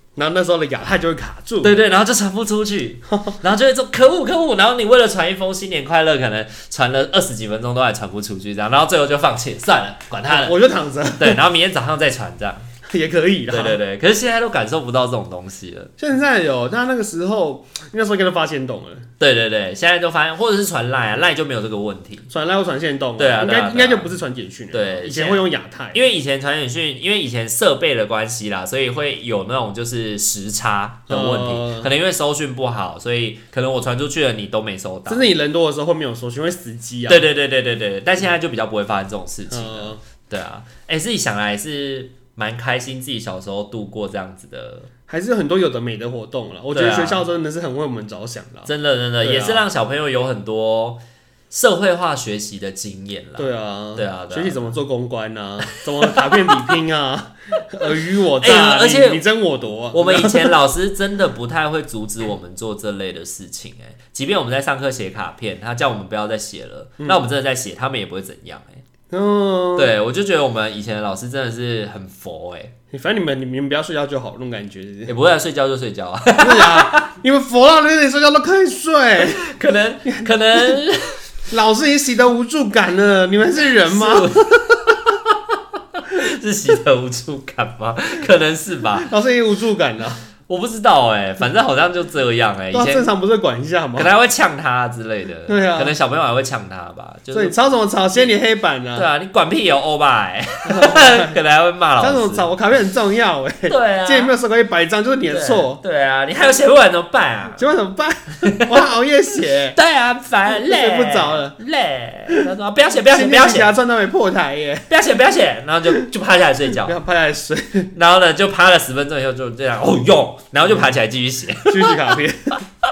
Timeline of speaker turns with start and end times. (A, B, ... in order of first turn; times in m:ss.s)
0:00.2-0:01.8 A
0:01.6-0:10.6 B
0:03.1-0:03.4 A
0:10.3-0:11.4 A
0:11.2-0:12.7 B
0:12.9-0:13.8 A
0:13.5-0:15.9 B
0:16.0-0:19.1 A
0:19.2-0:22.3 B
0:22.3-0:26.0 A
0:23.2-0:24.1 B
0:24.7-0:35.3 B
0:31.1-0:31.9 A
0:35.1-0:37.2 A
0:37.1-0:44.9 B
0:39.5-0:40.0 A
0:45.1-0:49.7 A
0:46.7-0:47.2 B
0:48.7-0:54.7 B
0:53.4-1:00.6 A
0:55.7-0:56.8 B
0:57.9-0:59.2 B
0:59.9-1:08.8 B
1:09.1-1:10.0 A
1:09.8-1:12.7 B
1:12.9-1:15.1 A
1:15.1-1:17.1 B
1:16.4-1:19.4 A
1:19.2-1:21.2 B
1:20.1-1:20.8 A
1:21.5-1:24.3 A
1:23.8-1:29.1 B
1:29.0-1:30.2 A
1:30.5-1:33.1 B
1:32.7-1:34.1 A
1:34.0-1:37.6 B
1:35.5-1:36.0 A
1:37.3-1:39.1 A
1:39.0-1:42.5 B
1:40.7-1:41.4 A
1:42.0-1:45.8 A
1:43.7-1:44.3 B
1:45.3-1:47.6 B
1:47.6-1:49.8 A
1:48.5-1:48.7 B
1:49.7-1:53.7 B
1:50.5-1:51.6 A
1:53.1-1:54.9 A
1:54.9-1:57.0 B
1:56.8-1:57.9 A
1:57.9-2:02.1 B
2:00.7-2:00.9 A
2:01.7-2:02.6 A